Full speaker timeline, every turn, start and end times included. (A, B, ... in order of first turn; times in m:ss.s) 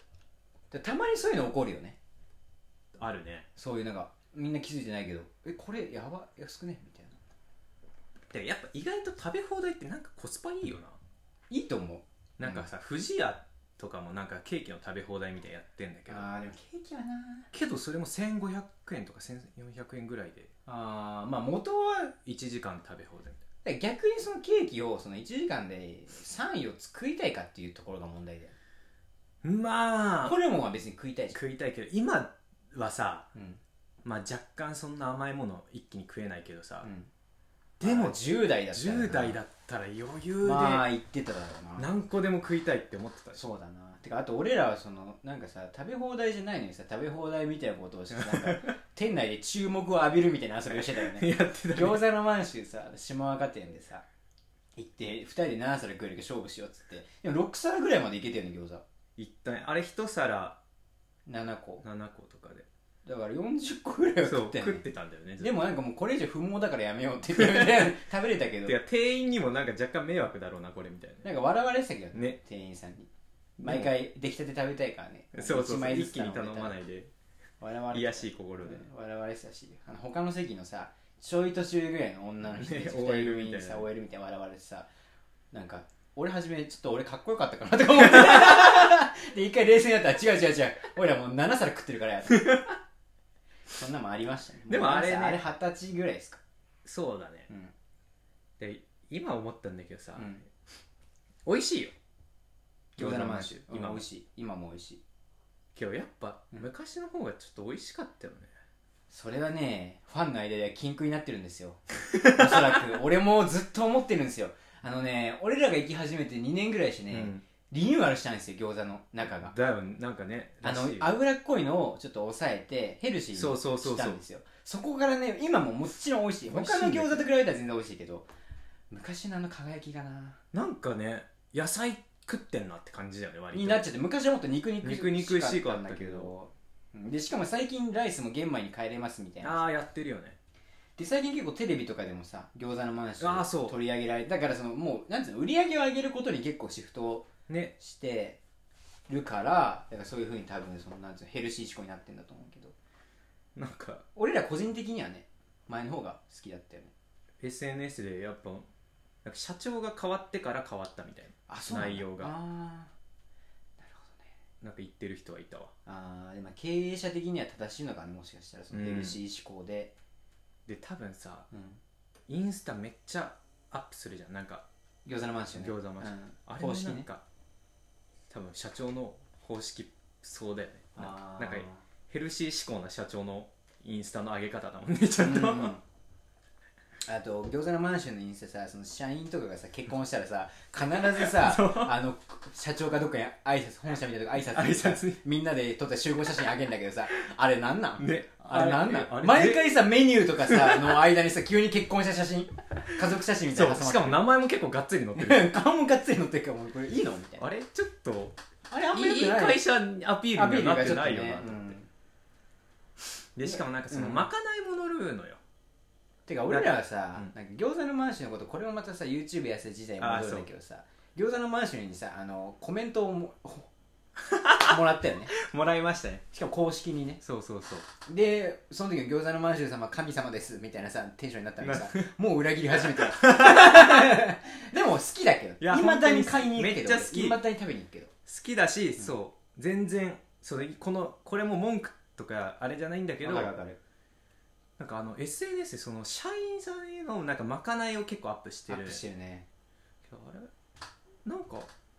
0:00.7-0:02.0 A
0:02.9-0:03.5 B
0:03.6-0:07.2 A
0:08.3-0:11.0 B
0:11.5-0:12.6 A
0:12.4-0:16.2 B
0:16.1-0:17.5 A
0:17.5-0:20.5 B
0:20.6-0:22.2 A
0:22.2-0:23.4 B
0:23.6-0:28.5 A
0:29.4-0:30.4 B
0:30.2-0:31.4 A
0:31.3-0:33.3 B
0:33.3-0:33.6 A
0:34.0-0:36.9 B
0:36.8-0:37.1 A
0:37.8-0:39.4 A
0:37.8-0:40.8 B
0:40.4-0:41.9 A
0:41.8-0:43.4 B
0:43.3-0:54.0 A
0:48.1-0:48.7 B
0:50.7-0:52.0 B
0:54.8-0:58.8 A
0:59.2-1:00.6 B
1:01.2-1:01.8 A
1:01.8-1:02.7 B
1:03.0-1:04.8 A
1:04.2-1:05.6 B
1:05.4-1:08.8 A
1:07.3-1:07.9 B
1:08.6-1:11.2 B
1:11.2-1:13.1 A
1:13.6-1:13.9 B
1:13.6-1:16.8 A
1:15.3-1:17.1 B
1:17.6-1:24.9 A
1:17.9-1:18.9 B
1:22.4-1:23.9 B
1:25.5-1:32.7 A
1:33.7-1:36.4 A
1:34.7-1:35.4 B
1:36.8-1:37.5 B
1:38.6-1:40.3 B
1:40.2-1:40.4 A
1:41.4-1:41.9 B
1:42.9-1:45.0 A
1:43.0-1:44.0 B
1:45.7-1:48.5 B
1:49.1-1:59.5 A
1:52.1-1:52.8 B
1:57.1-1:57.4 B
1:59.3-2:01.2 B
2:00.6-2:08.3 A
2:03.3-2:04.2 B
2:06.4-2:07.3 B
2:08.9-2:10.4 A
2:10.5-2:13.8 B
2:13.5-2:19.6 A
2:14.8-2:16.3 B
2:19.4-2:20.4 B
2:21.0-2:28.4 A
2:23.2-2:23.8 B
2:27.5-2:27.7 B
2:29.1-2:32.7 A
2:33.5-2:34.0 B
2:34.2-2:36.9 A
2:37.4-2:38.7 B
2:39.2-2:42.3 B
2:41.5-2:42.9 A
2:43.8-2:44.3 A
2:44.6-2:45.7 B
2:45.8-2:49.9 A
2:48.7-2:49.2 B
2:50.6-2:51.5 B
2:51.5-2:51.8 A
2:52.3-2:54.6 B
2:55.0-2:57.1 A
2:55.5-2:57.2 B
2:58.3-3:05.8 B
3:01.0-3:01.8 A
3:05.2-3:05.8 A
3:07.0-3:24.3 A
3:11.0-3:11.9 B
3:14.5-3:15.2 B
3:18.0-3:19.8 B
3:20.4-3:21.0 B
3:23.5-3:25.6 B
3:25.2-3:27.5 A
3:27.4-3:28.4 B
3:28.7-3:29.6 A
3:28.9-3:31.8 B
3:30.3-3:31.9 A
3:33.4-3:35.4 B
3:33.4-3:34.3 A
3:36.3-3:43.7 A
3:36.5-3:37.3 B
3:40.0-3:40.5 B
3:44.2-3:46.2 B
3:44.6-3:45.3 A
3:46.3-3:47.2 A
3:47.2-3:47.9 B
3:48.0-3:58.1 A
3:51.6-3:52.1 B
3:52.8-3:54.2 B
3:55.6-3:57.4 B
3:58.2-4:03.5 B
4:03.2-4:03.8 A
4:04.8-4:09.0 B
4:08.7-4:09.4 A
4:10.0-4:10.5 B
4:11.2-4:11.7 B